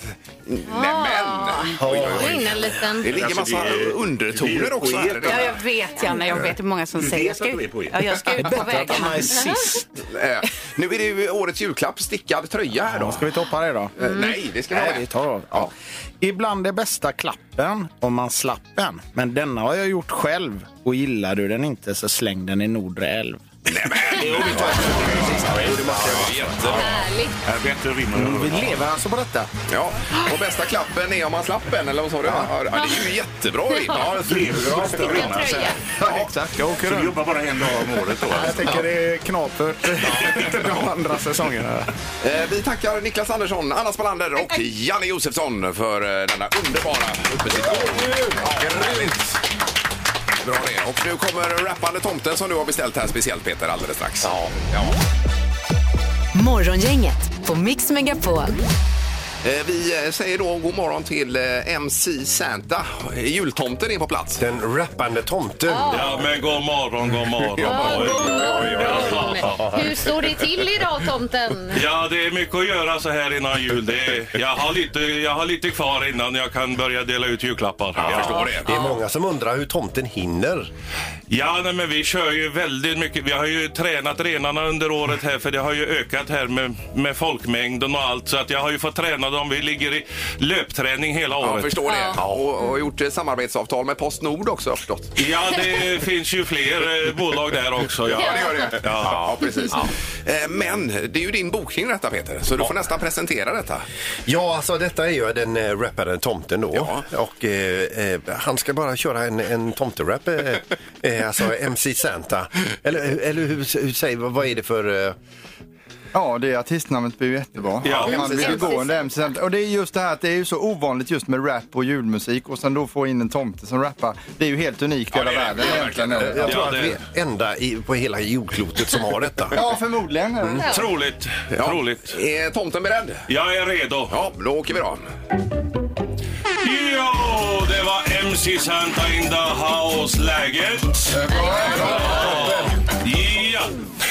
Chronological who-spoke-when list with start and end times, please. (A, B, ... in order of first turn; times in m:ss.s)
0:00.5-0:05.5 A
0:00.7-0:03.1 B
0:01.9-0:05.6 C
0:05.3-0:09.3 D
0:06.3-0:08.0 C
0:08.4-0:09.9 E
0:10.0-0:13.4 A
0:12.9-0:13.9 E
0:14.0-0:15.7 A
0:14.7-0:26.9 E
0:23.7-0:27.0 A
0:25.0-0:26.6 F
0:26.7-0:27.4 B
0:27.4-0:28.9 C
0:28.1-0:29.5 E
0:29.7-0:34.3 A
0:32.7-0:33.1 B
0:33.9-0:35.3 F
0:34.2-0:36.2 C
0:34.8-0:35.8 B
0:35.3-0:41.9 E
0:36.8-0:38.8 C
0:42.2-0:49.2 A
0:48.0-0:49.2 F
0:50.4-0:55.0 A
0:56.3-0:58.6 G
0:59.4-1:04.4 A
1:04.4-1:06.2 F
1:05.7-1:06.2 B
1:05.9-1:09.7 H
1:07.6-1:10.0 F
1:07.6-1:11.8 B
1:11.7-1:18.5 H
1:18.0-1:18.8 A
1:18.0-1:20.7 F
1:21.3-1:32.0 H
1:31.4-1:35.2 A
1:31.8-1:32.2 B
1:35.2-1:39.3 H
1:38.2-1:43.9 A
1:38.3-1:38.5 B
1:44.3-1:55.2 F
1:46.7-1:47.0 A
1:56.1-2:06.8 I
1:57.8-1:58.2 H
1:57.9-1:58.8 A
1:58.2-1:59.1 B
2:05.1-2:06.6 A
2:06.2-2:09.6 F
2:06.5-2:07.0 H
2:09.5-2:10.8 I
2:10.6-2:12.1 H
2:11.5-2:13.3 A
2:13.3-2:14.2 H
2:14.1-2:15.1 A
2:16.6-2:23.8 H
2:21.3-2:22.2 A
2:21.3-2:22.8 F